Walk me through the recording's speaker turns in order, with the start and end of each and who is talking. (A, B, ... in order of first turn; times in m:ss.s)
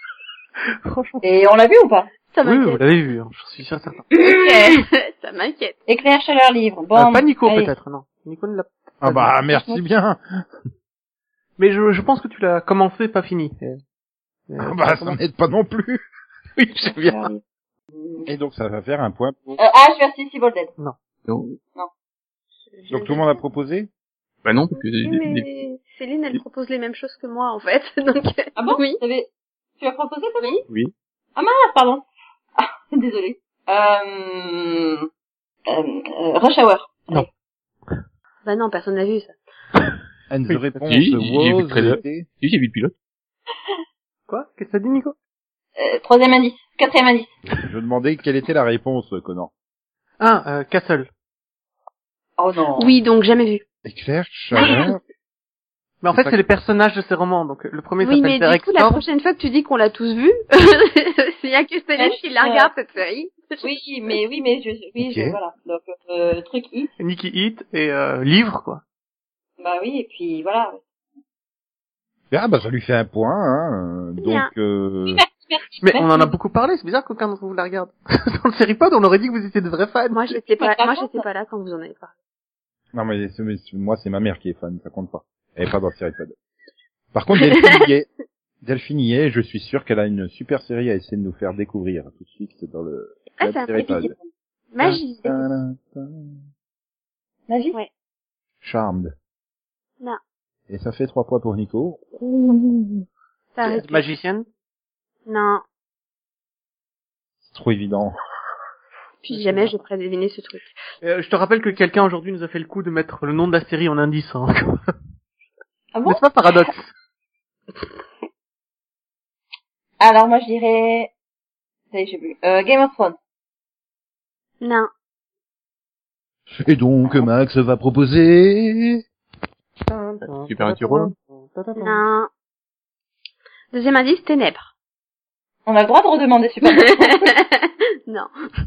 0:00.8-0:01.2 A
0:01.2-0:02.1 B
0:02.3-0:02.8 C
0:02.4-0:04.0 A
0:04.1-0:04.8 B
0:04.2-0:05.8 C
0:05.9-0:07.7 B
0:06.9-0:09.4 A
0:09.0-0:10.4 D
0:09.4-0:09.8 B
0:11.6-0:13.8 A
0:14.5-0:15.2 A
0:14.6-0:16.0 D
0:16.6-0:17.3 D
0:16.9-0:17.4 B
0:18.0-0:18.3 B
0:18.2-0:19.6 D
0:19.6-0:20.7 B
0:21.2-0:21.6 E
0:22.7-0:23.4 C
0:22.9-0:23.9 D
0:24.4-0:25.5 E
0:24.8-0:29.0 C
0:28.6-0:29.3 B
0:29.8-0:30.6 B
0:31.4-0:32.0 B
0:32.6-0:35.1 B
0:35.7-0:37.3 B
0:38.4-0:39.3 C
0:40.3-0:42.3 D
0:40.8-0:42.9 E
0:44.3-0:45.1 A
0:45.8-0:47.3 B
0:47.6-0:49.5 D
0:50.2-0:51.1 A
0:52.4-0:52.9 B
0:52.8-0:53.6 C
0:53.8-0:55.0 D
0:56.0-0:59.0 A
0:56.1-0:56.4 D
0:58.0-1:03.7 C
1:02.0-1:02.7 B
1:03.6-1:06.9 B
1:05.0-1:05.4 D
1:07.0-1:08.8 A
1:09.6-1:10.8 B
1:12.3-1:15.2 D
1:14.2-1:14.5 C
1:15.0-1:16.3 B
1:15.8-1:20.4 A
1:20.1-1:22.1 C
1:20.5-1:21.2 B
1:22.9-1:26.3 D
1:27.1-1:28.1 D
1:28.6-1:34.1 D
1:33.4-1:34.1 C
1:34.7-1:35.4 C
1:34.8-1:36.4 D
1:37.5-1:37.8 B
1:38.6-1:39.1 D
1:40.7-1:42.1 D
1:42.2-1:43.0 B
1:43.5-1:44.1 C
1:43.6-1:44.5 A
1:45.2-1:45.6 C
1:47.4-1:48.1 D
1:49.2-1:50.8 C
1:49.3-1:49.8 A
1:51.0-1:54.9 A
1:55.9-1:56.2 B
1:56.0-1:56.9 A
2:00.0-2:01.1 B
2:01.9-2:03.2 B
2:04.6-2:04.9 C
2:06.5-2:09.0 D
2:09.8-2:12.0 A
2:10.2-2:11.1 E
2:11.8-2:12.3 C
2:13.7-2:14.7 C
2:15.6-2:17.3 B
2:16.6-2:18.3 C